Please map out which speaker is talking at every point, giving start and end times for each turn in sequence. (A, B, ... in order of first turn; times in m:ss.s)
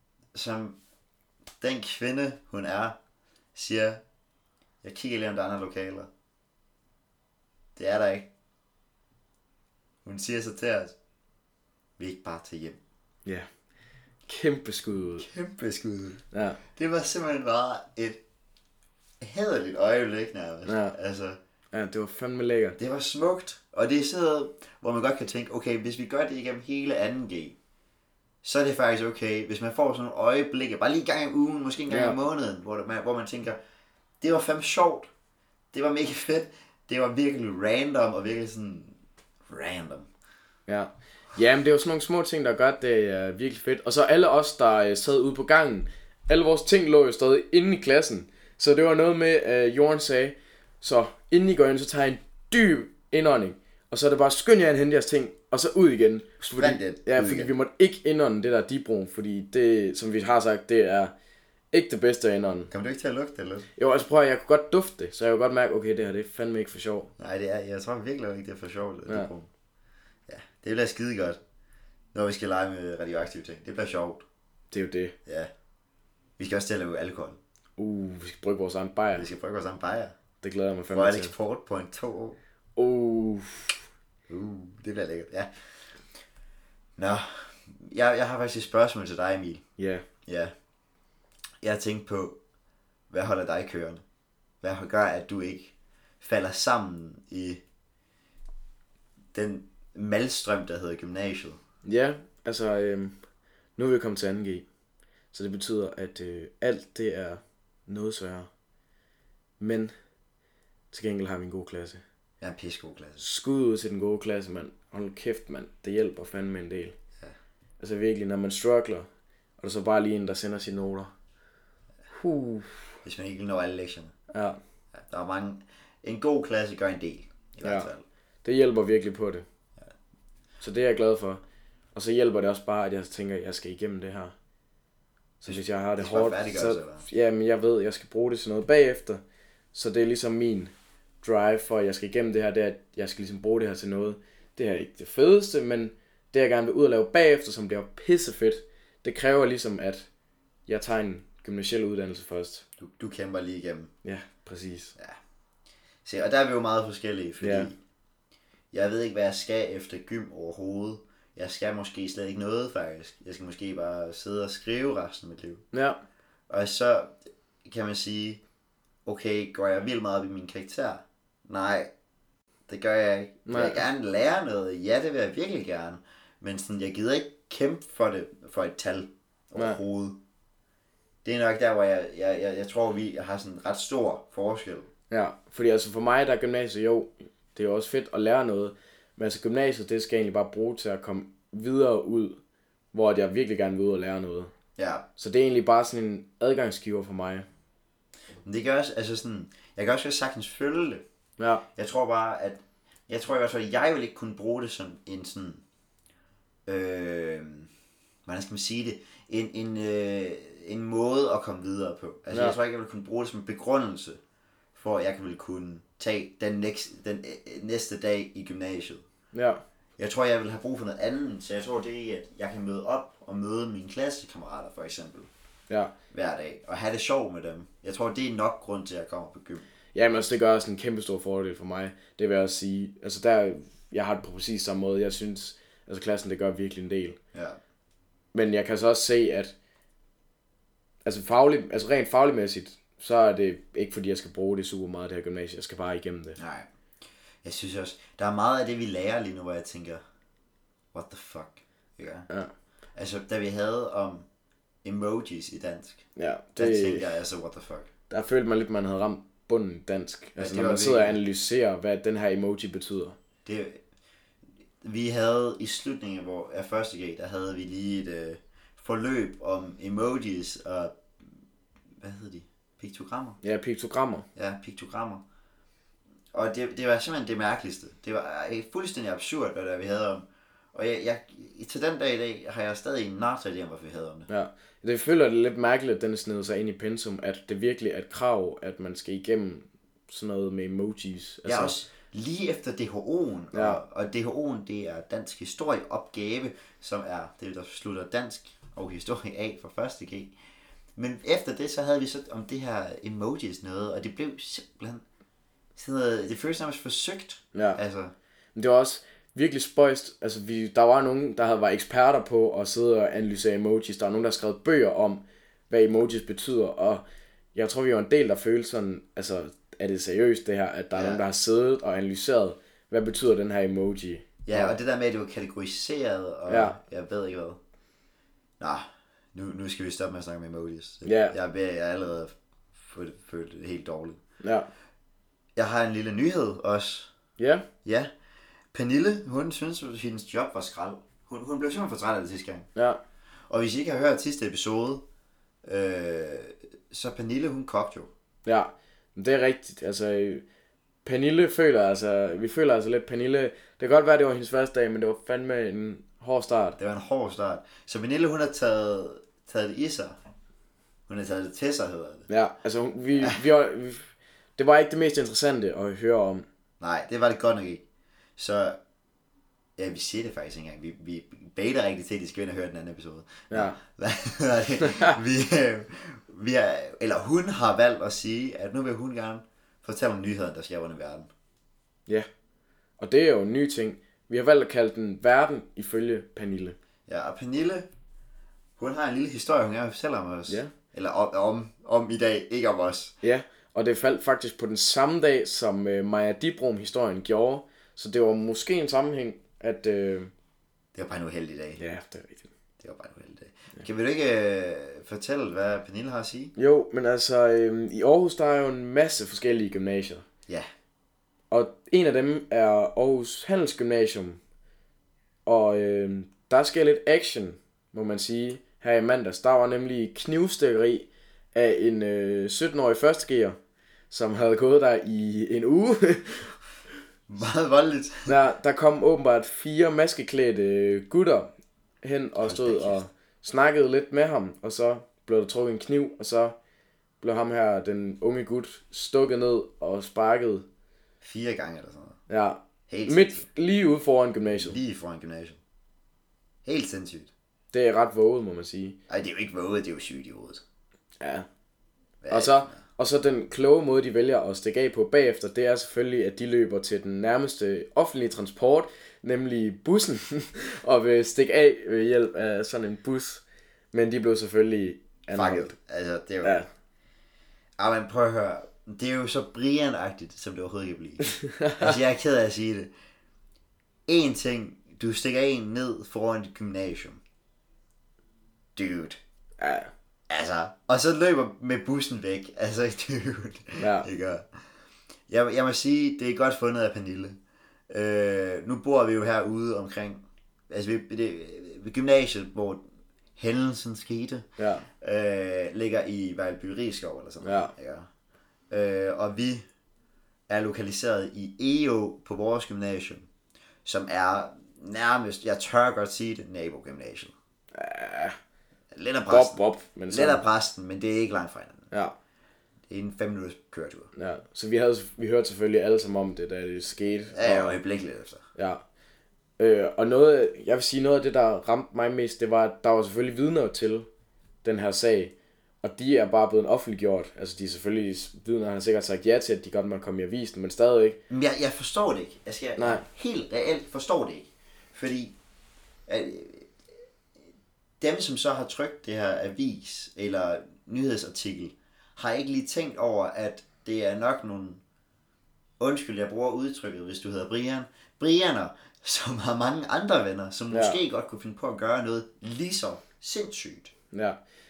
0:00.3-0:00.8 A
0:01.6-0:03.0 A
0:03.6-0:04.0 A
0:04.8-0:06.1 A
0:07.8-0:08.3 A
0:10.0-0:11.0 A
0:12.0-0:12.8 A
0:14.3-0:15.3 B
0:15.2-0:16.2 A
0:16.3-0:16.6 B
0:16.8-0:18.2 A
0:19.2-0:21.4 A
0:20.7-0:21.0 B
0:21.7-0:22.8 B
0:22.8-0:27.6 A
0:28.4-0:33.6 A
0:31.9-0:32.2 B
0:34.2-0:35.1 A
0:35.7-0:40.1 A
0:40.7-1:01.1 B
0:56.4-0:57.5 A
1:01.7-1:02.7 B
1:02.7-1:03.7 A
1:03.8-1:07.1 B
1:07.2-1:09.5 A
1:10.3-1:11.4 A
1:12.1-1:14.2 A
1:14.7-1:15.2 B
1:16.4-1:17.4 A
1:17.8-1:19.3 B
1:19.1-1:20.1 A
1:20.4-1:21.3 B
1:20.9-1:22.4 A
1:22.8-1:23.8 B
1:24.3-1:25.5 A
1:27.0-1:29.6 A
1:29.8-1:30.0 B
1:30.3-1:30.5 A
1:31.6-1:32.4 A
1:33.1-1:34.0 A
1:34.6-1:37.6 A
1:39.3-1:41.6 A
1:41.8-1:43.2 B
1:43.8-1:44.7 B
1:45.3-1:48.5 B
1:49.6-1:49.9 B
1:50.9-1:52.0 B
1:52.4-1:53.2 A
1:53.2-1:57.0 B
1:57.8-1:59.1 B
1:59.6-2:01.1 B
2:02.1-2:03.0 B
2:03.0-2:04.1 A
2:04.3-2:04.6 B
2:05.0-2:08.0 A
2:07.6-2:07.9 B
2:08.4-2:09.4 B
2:10.6-2:11.4 B
2:12.0-2:14.3 B
2:15.4-2:19.2 B
2:15.4-2:17.1 A
2:19.7-2:30.1 B
2:30.7-2:32.6 B
2:32.8-2:33.9 A
2:34.0-2:34.9 B
2:36.0-2:37.8 A
2:37.4-2:37.7 B
2:38.7-2:45.6 A
2:45.7-2:46.0 B
2:46.5-2:48.4 A
2:49.1-2:51.9 A
2:52.7-3:00.2 A
2:53.5-2:53.8 B
2:59.6-2:59.8 B
3:01.2-3:04.9 A
3:05.1-3:12.4 B
3:12.9-3:14.5 B
3:14.8-3:15.0 A
3:15.2-3:17.5 B
3:18.4-3:21.0 A
3:21.4-3:21.6 B
3:21.8-3:25.6 A
3:26.7-3:27.7 A
3:28.3-3:34.2 A
3:34.8-3:39.0 A
3:39.3-3:39.6 B
3:40.0-3:45.3 A
3:46.1-3:49.6 A
3:49.9-3:57.2 B
3:57.3-3:57.6 A
3:58.3-3:59.5 B
4:01.0-4:06.4 B
4:06.4-4:06.7 A
4:07.4-4:10.0 A
4:10.9-4:12.3 A
4:13.0-4:14.2 A
4:14.8-4:16.0 A
4:16.2-4:17.1 B
4:16.6-4:17.9 A
4:18.1-4:23.2 B
4:20.4-4:21.2 A
4:23.4-4:23.8 A
4:24.8-4:31.4 A
4:32.0-4:33.4 A
4:33.4-4:34.3 B
4:34.4-4:35.2 A
4:36.3-4:44.3 A
4:44.3-4:51.8 B
4:51.5-5:00.3 A
4:53.5-4:53.8 B
5:01.0-5:05.0 A
5:05.8-5:08.1 A
5:07.5-5:07.8 B
5:08.6-5:17.0 B
5:17.6-5:24.8 B
5:20.9-5:21.2 A
5:24.4-5:27.6 A
5:26.5-5:26.8 B
5:28.6-5:32.3 A
5:31.0-5:31.3 B
5:32.8-5:34.2 A
5:34.4-5:34.7 B
5:35.6-5:37.1 A
5:37.4-5:37.7 B
5:37.8-5:38.1 A
5:38.7-5:42.7 A
5:43.5-5:45.0 A
5:45.6-5:48.1 A
5:48.4-5:50.4 B
5:51.0-5:56.8 B
5:56.8-6:00.2 A
6:01.1-6:02.3 A
6:02.3-6:06.5 B
6:06.8-6:07.8 A
6:08.4-6:08.8 A
6:09.8-6:21.3 A
6:13.5-6:13.8 B
6:23.0-6:26.8 B
6:27.1-6:27.9 A
6:28.8-6:33.1 A
6:33.2-6:40.3 B
6:41.0-6:41.8 A
6:41.8-6:42.5 B
6:42.8-6:46.5 A
6:46.6-6:50.2 B
6:51.5-6:54.4 B
6:55.5-7:03.6 B
7:04.1-7:06.5 B
7:07.3-7:08.3 A
7:08.3-7:16.6 B
7:12.4-7:13.1 A
7:17.2-7:20.7 B
7:21.2-7:22.2 A
7:22.3-7:24.8 B
7:22.9-7:23.5 A
7:24.5-7:25.6 A
7:26.6-7:27.3 A
7:27.7-7:29.0 B
7:29.1-7:30.6 A
7:31.2-7:31.5 B
7:32.2-7:32.8 A
7:32.3-7:45.8 B
7:45.4-7:46.6 A
7:47.8-7:52.9 A
7:51.6-7:52.0 B
7:54.1-7:57.2 A
7:58.8-7:59.2 A
7:59.6-7:59.9 B
8:00.3-8:04.5 A
8:03.8-8:04.1 B
8:05.3-8:07.4 A
8:07.9-8:12.8 A
8:13.4-8:14.5 A
8:14.6-8:14.9 B
8:15.0-8:18.1 A
8:17.4-8:17.7 B
8:18.7-8:19.7 A
8:20.5-8:23.3 A
8:23.8-8:27.3 A
8:27.7-8:28.4 B
8:28.9-8:31.9 A
8:29.3-8:30.4 B
8:32.9-8:34.1 A
8:34.2-8:37.8 B
8:37.3-8:38.4 A
8:38.6-8:38.8 B
8:39.6-8:44.1 B
8:44.6-8:51.2 B
8:51.3-8:55.4 A
8:52.8-8:53.0 B
8:56.1-8:56.7 A
8:58.0-9:04.8 A
9:05.8-9:13.9 A
9:10.7-9:11.0 B
9:14.1-9:14.4 B